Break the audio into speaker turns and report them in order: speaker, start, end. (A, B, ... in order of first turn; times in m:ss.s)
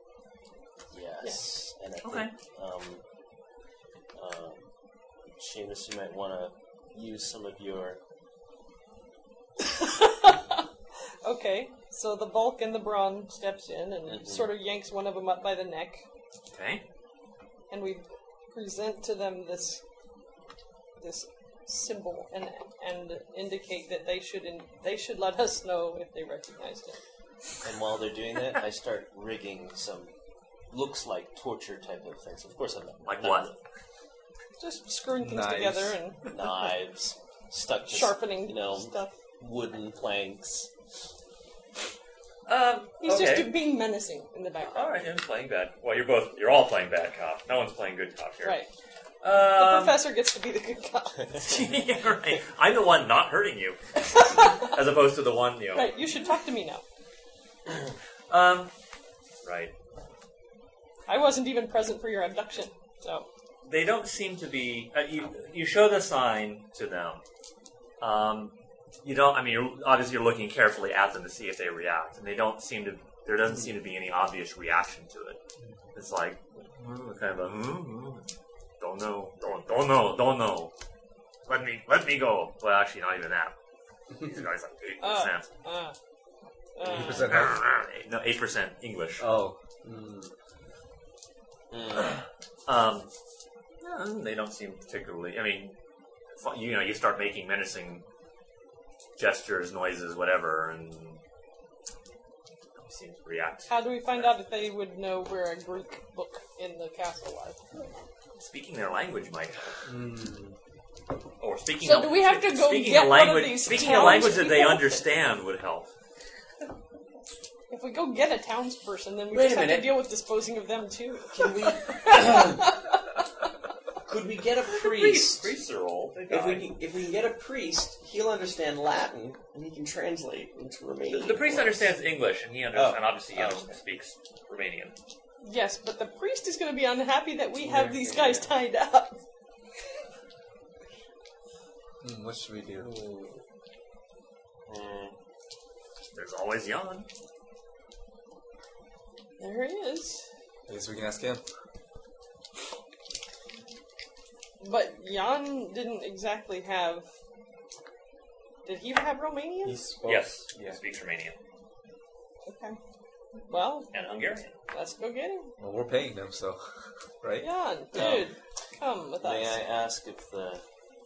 0:00.9-0:03.0 A
0:02.0-0:02.3 B
0:04.1-0:04.7 A
0:05.4-0:08.0 A
0:09.6-0:10.6 C
0:11.2-0:16.0 C
0:14.0-0:14.5 A
0:16.5-0:16.8 B
0:17.7-0:19.8 C
0:21.0-0:27.0 C
0:27.6-0:30.1 A
0:30.7-0:33.5 A
0:33.0-0:33.6 B
0:34.6-0:36.3 C
0:35.2-0:36.0 D
0:36.3-0:40.7 A
0:37.9-0:39.1 C
0:42.4-0:43.5 B
0:43.0-0:45.1 C
0:44.7-0:48.6 B
0:48.4-0:48.7 C
0:49.2-0:50.0 B
0:49.4-0:51.5 C
0:51.4-0:56.0 B
0:54.1-0:54.7 C
0:55.7-0:56.8 C
0:58.3-0:58.7 B
0:59.4-0:59.7 B
1:01.1-1:03.2 C
1:03.6-1:07.2 B
1:08.0-1:15.4 B
1:15.9-1:18.3 B
1:18.8-1:20.7 B
1:21.4-1:23.5 B
1:24.2-1:25.5 B
1:25.0-1:25.9 C
1:26.8-1:27.4 C
1:26.8-1:27.6 D
1:27.0-1:29.2 B
1:29.2-1:29.6 D
1:29.8-1:30.3 E
1:31.7-1:32.2 A
1:32.6-1:33.1 B
1:33.8-1:35.8 B
1:36.3-1:38.0 B
1:39.2-1:41.2 B
1:42.8-1:44.3 B
1:43.7-1:47.6 C
1:48.4-1:49.8 B
1:49.8-1:50.6 E
1:51.4-1:55.9 B
1:51.8-1:55.0 C
1:57.7-2:03.0 C
1:59.3-2:00.0 E
2:01.3-2:02.6 E
2:04.0-2:05.5 E
2:04.8-2:06.7 B
2:06.3-2:11.9 E
2:11.1-2:14.9 B
2:12.7-2:13.0 E
2:13.3-2:13.7 A
2:15.4-2:19.2 C
2:17.6-2:18.5 A
2:17.8-2:18.2 E
2:22.0-2:22.9 D
2:22.9-2:23.2 A
2:24.7-2:25.1 A
2:26.1-2:27.1 B
2:29.4-2:30.2 C
2:30.7-2:31.4 D
2:34.6-2:37.0 C
2:38.6-2:39.8 C
2:39.7-2:40.8 D
2:39.9-2:40.2 E
2:40.0-2:41.3 B
2:42.4-2:42.8 C
2:43.5-2:43.9 C
2:43.9-2:44.5 B
2:44.7-2:45.5 C
2:45.6-2:47.5 D
2:47.4-2:49.6 C
2:47.9-2:48.3 A
2:49.2-2:50.6 A